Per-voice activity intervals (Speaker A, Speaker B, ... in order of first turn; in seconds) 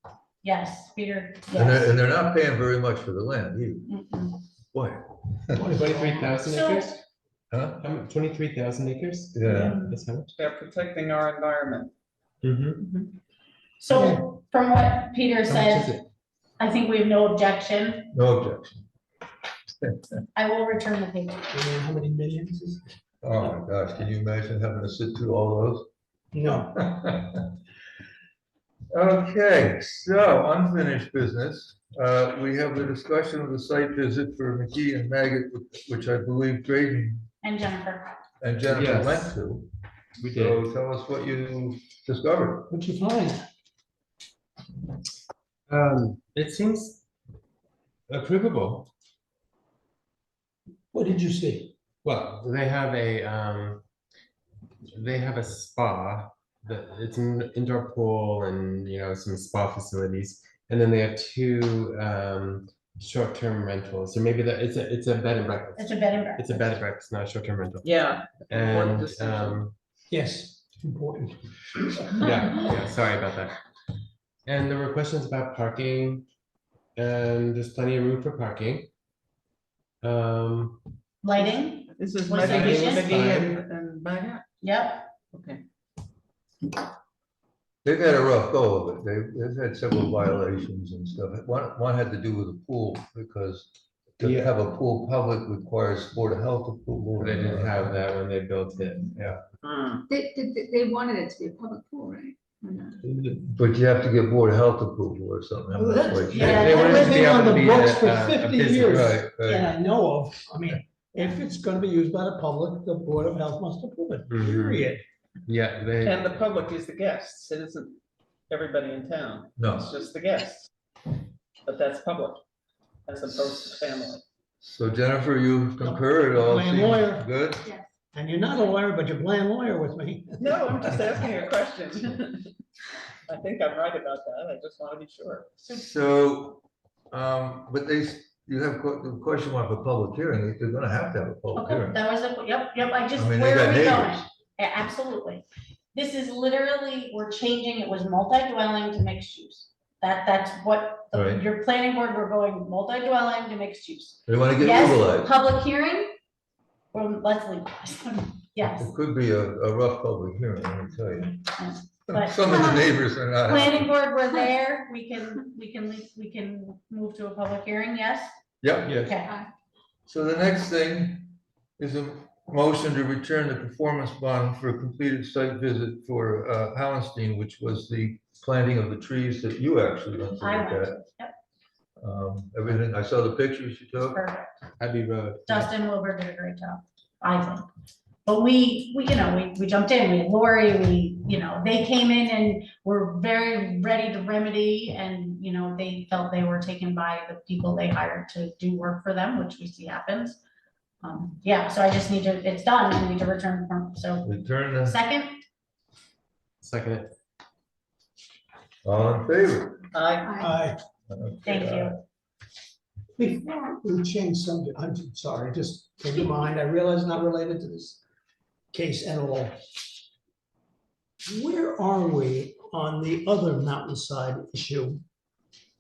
Speaker A: 0.4-2.0, 3.9-4.4, 6.4-7.0, 9.5-10.0, 12.8-13.1, 13.8-16.0, 16.6-18.1, 20.4-21.6, 37.4-38.1, 65.8-66.7, 81.2-83.2, 84.6-85.1, 106.3-107.3, 141.6-156.2, 156.9-158.9, 161.6-162.5, 163.4-168.3, 169.1-169.3, 180.4-181.3, 184.1-184.6, 185.5-187.7, 188.3-200.4, 201.0-205.4, 211.4-211.9
Speaker B: 1.5-3.9, 4.7-5.7, 7.5-7.8, 9.3-9.8, 18.1-18.9, 23.2-25.9, 26.8-27.6, 28.9-37.3, 38.4-39.7, 40.3-42.7, 87.8-98.0, 103.0-107.8, 108.9-109.8, 119.6-119.9, 124.6-127.7, 135.7-142.0, 143.2-144.3, 151.1-151.4, 154.3-155.3, 158.6-161.5, 162.1-163.9, 168.6-169.0, 170.1-181.0, 182.0-184.2, 204.2-205.0, 208.8-209.9, 211.1-212.0
Speaker C: 5.5-6.3, 13.9-14.2, 21.5-22.8, 26.3-26.8, 42.7-43.4, 50.9-51.7, 70.1-72.2, 105.8-115.0, 125.8-127.3, 128.1-130.6, 210.4-210.8, 213.2-218.0, 218.7-219.6, 221.3-225.0
Speaker D: 5.7-7.0, 7.8-10.3, 12.4-12.8, 15.5-16.1, 38.7-39.4, 40.2-40.6, 45.7-47.0, 48.1-48.9, 52.0-53.9, 54.9-67.9, 68.5-69.7, 72.2-73.6, 74.5-76.3, 77.0-78.9, 80.0-80.8, 82.4-83.6, 94.2-94.5, 97.2-99.4, 106.4-109.2, 114.3-114.9, 115.5-116.4, 168.9-169.2, 184.8-185.7, 206.6-207.1
Speaker E: 10.3-11.9, 67.8-69.6, 81.4-84.5, 85.3-85.6, 99.6-100.0, 116.0-118.0, 118.5-120.7, 121.7-122.4, 123.1-124.2, 130.4-132.4, 133.3-135.5, 209.9-210.4
Speaker F: 100.1-103.0, 210.3-210.6